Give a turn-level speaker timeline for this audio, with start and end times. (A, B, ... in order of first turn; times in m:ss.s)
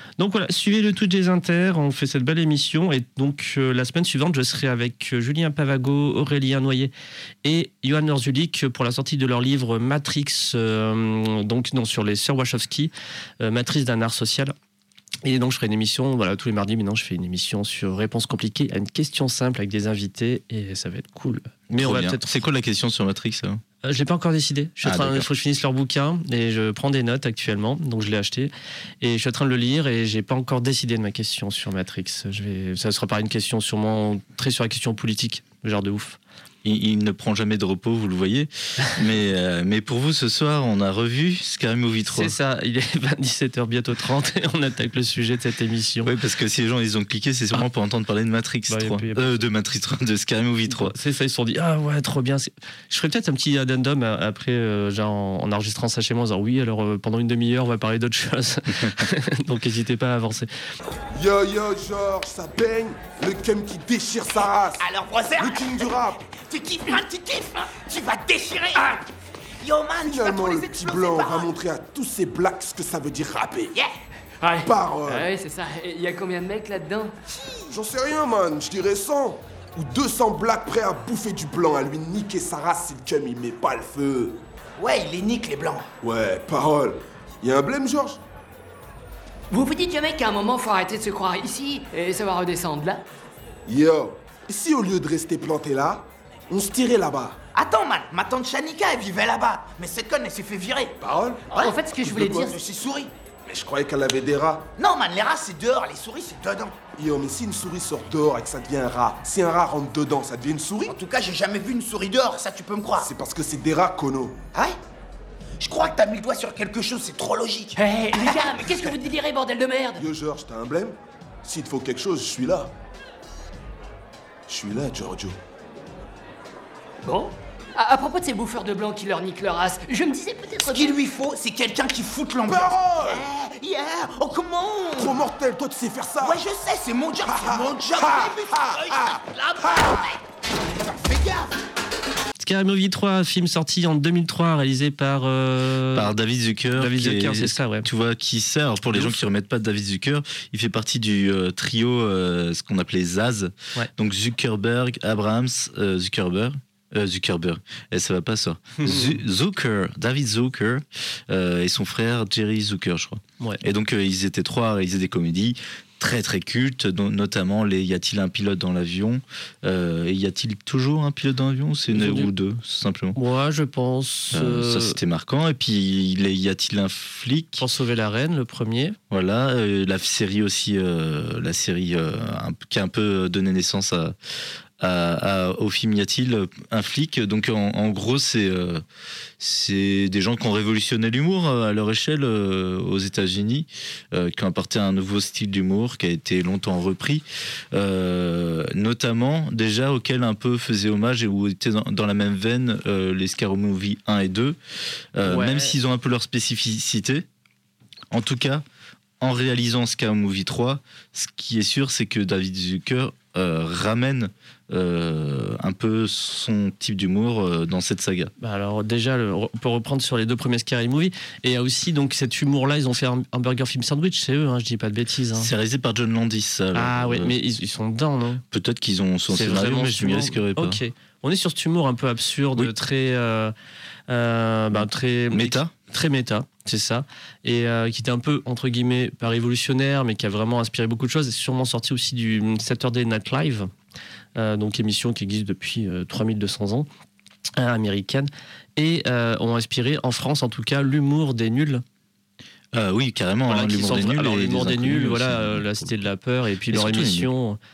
0:00.2-0:06.9 A
0:07.4-0:14.5 A
0:15.2-0:22.3 A
0:21.7-0:23.6 B
0:23.8-0:36.2 A
0:24.8-0:25.3 B
0:36.6-0:42.3 B
0:42.1-0:46.1 A
0:46.0-0:50.9 B
0:48.7-0:49.4 A
0:50.7-1:00.5 A
1:01.1-1:04.8 C
1:04.8-1:08.9 D
1:05.4-1:06.2 C
1:09.6-1:11.5 D
1:10.0-1:13.7 C
1:14.4-1:17.1 E
1:14.6-1:15.3 C
1:17.7-1:24.4 C
1:24.8-1:25.9 D
1:26.0-1:28.2 C
1:29.5-1:33.0 E
1:33.7-1:37.4 C
1:37.5-1:40.9 D
1:41.0-1:41.5 C
1:41.5-1:42.5 E
1:42.0-1:42.5 C
1:42.4-1:43.1 D
1:43.5-1:44.7 C
1:44.8-1:46.7 D
1:47.0-1:51.0 C
1:50.9-1:53.0 D
1:53.0-1:54.4 C
1:55.6-1:58.5 D
1:57.8-2:00.0 E
2:00.0-2:02.7 C
2:04.5-2:05.4 C
2:07.0-2:10.9 E
2:10.7-2:15.2 D
2:12.4-2:13.2 C
2:15.0-2:16.4 C
2:16.2-2:20.0 D
2:17.2-2:19.9 C
2:21.0-2:21.5 D
2:22.4-2:26.1 A
2:25.9-2:53.2 B
2:26.8-2:27.9 A
2:28.9-2:29.2 A
2:38.8-2:39.1 A
2:51.9-2:52.3 A
2:53.1-2:55.0 A
2:54.3-2:57.6 B
2:57.6-2:59.0 A
2:59.1-3:04.2 B
3:04.8-3:08.8 B
3:09.4-3:24.6 B
3:25.1-3:27.2 B
3:25.2-3:25.8 A
3:28.1-3:28.6 B
3:29.2-3:38.3 B
3:38.4-3:45.5 A
3:45.3-3:47.3 B
3:46.7-3:48.4 A
3:48.5-3:50.8 B
3:49.3-3:53.5 A
3:54.1-4:03.7 A
3:55.3-3:55.7 B
4:04.3-4:06.9 A
4:07.6-4:11.8 A
4:12.7-4:16.0 B
4:13.5-4:17.6 A
4:16.7-4:17.3 B